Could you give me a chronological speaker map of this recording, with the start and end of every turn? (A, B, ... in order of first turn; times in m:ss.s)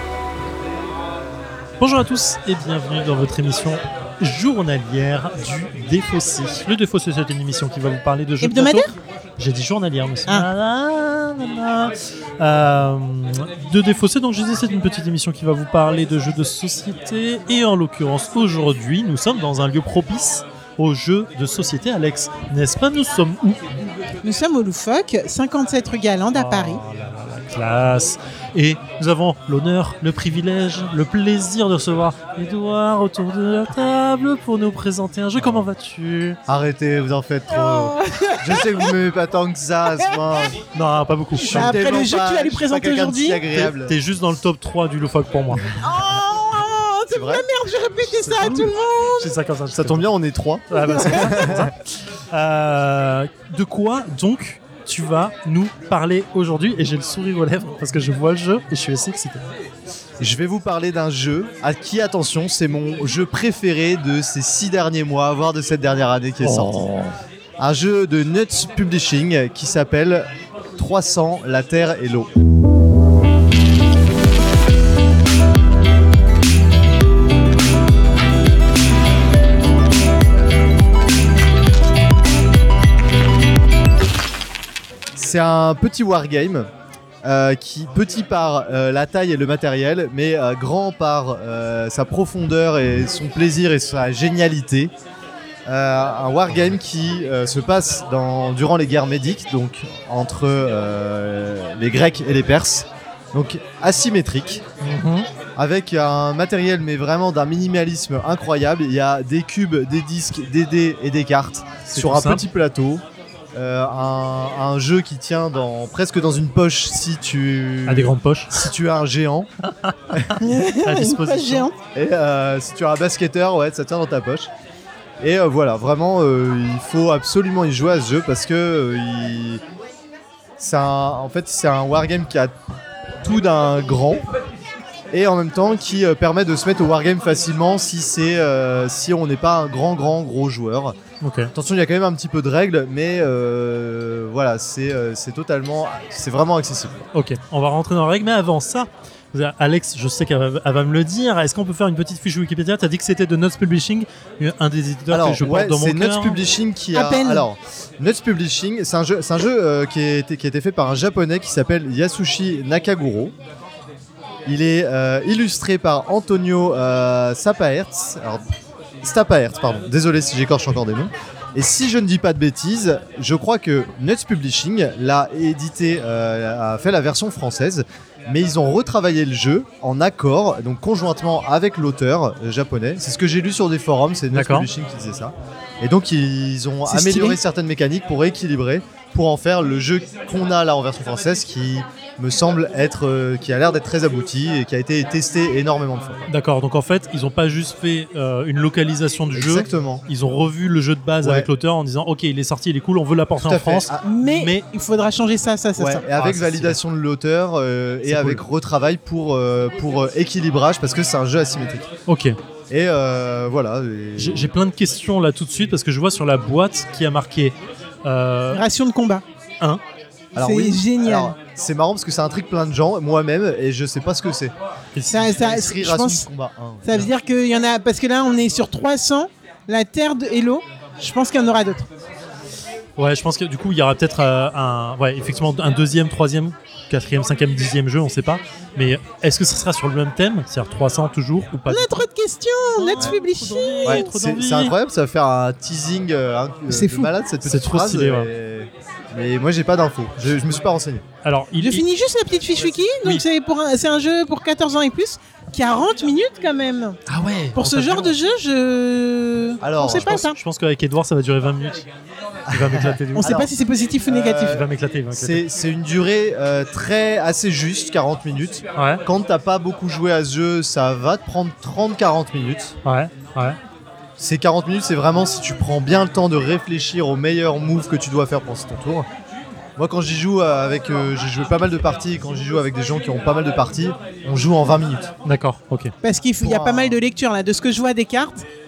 0:01.8-0:23.6 A
0:08.4-0:08.9 B
0:24.2-0:26.8 B
0:26.3-0:36.4 A
0:36.5-0:40.5 C
0:37.5-0:38.9 B
0:40.7-0:41.8 A
0:41.4-0:43.4 B
0:41.4-0:44.0 C
0:43.5-0:45.7 A
0:45.8-0:49.3 B
0:47.1-0:47.4 C
0:48.3-0:50.1 A
0:49.7-0:51.7 C
0:50.7-0:59.4 A
0:50.8-0:51.5 B
1:00.2-1:06.8 C
1:06.4-1:07.1 A
1:07.6-1:12.3 C
1:25.2-1:26.7 C
1:27.2-1:34.9 C
1:35.7-1:44.6 C
1:44.8-1:45.3 A
1:45.6-1:53.0 C
1:51.8-1:52.4 A
1:53.5-1:59.5 C
1:57.8-1:58.7 A
1:59.6-2:01.7 A
2:00.4-2:01.7 B
2:01.9-2:04.5 C
2:05.2-2:09.6 C
2:10.6-2:12.6 C
2:13.2-2:14.3 C
2:15.1-2:21.0 C
2:21.2-2:21.5 A
2:21.5-2:27.0 C
2:27.1-2:36.4 A
2:35.1-2:43.3 C
2:36.9-2:37.5 B
2:44.5-2:48.4 C
2:49.0-3:16.2 C
3:04.3-3:04.7 A
3:06.9-3:07.4 B
3:16.3-3:24.7 A
3:19.3-3:20.0 C
3:21.2-3:21.5 C
3:23.4-3:24.1 C
3:24.0-3:26.1 B
3:25.8-3:31.9 C
3:26.1-3:26.8 A
3:28.0-3:28.5 A
3:32.1-3:32.4 A
3:32.7-3:34.5 C
3:34.2-3:38.7 A
3:38.5-3:39.2 B
3:40.3-3:44.5 C
3:40.4-3:41.4 B
3:45.0-3:45.3 A
3:45.1-3:46.3 B
3:45.2-3:46.9 C
3:46.8-3:51.9 B
3:53.0-4:02.0 A
4:01.7-4:04.1 B
4:02.7-4:04.8 A
4:03.8-4:11.0 C
4:06.7-4:07.1 B
4:07.4-4:08.3 A
4:11.2-4:11.9 A
4:11.6-4:17.0 B
4:17.1-4:18.2 A
4:17.6-4:20.4 B
4:19.6-4:20.3 C
4:20.3-4:21.9 A
4:22.5-4:23.5 C
4:22.5-4:23.5 A
4:23.2-4:24.5 B
4:24.1-4:32.8 C
4:24.4-4:25.5 A
4:28.8-4:29.0 A
4:32.8-4:33.6 A
4:34.2-4:39.1 C
4:39.8-4:45.1 C
4:45.2-4:45.9 A
4:46.0-4:48.4 B
4:46.4-4:47.0 C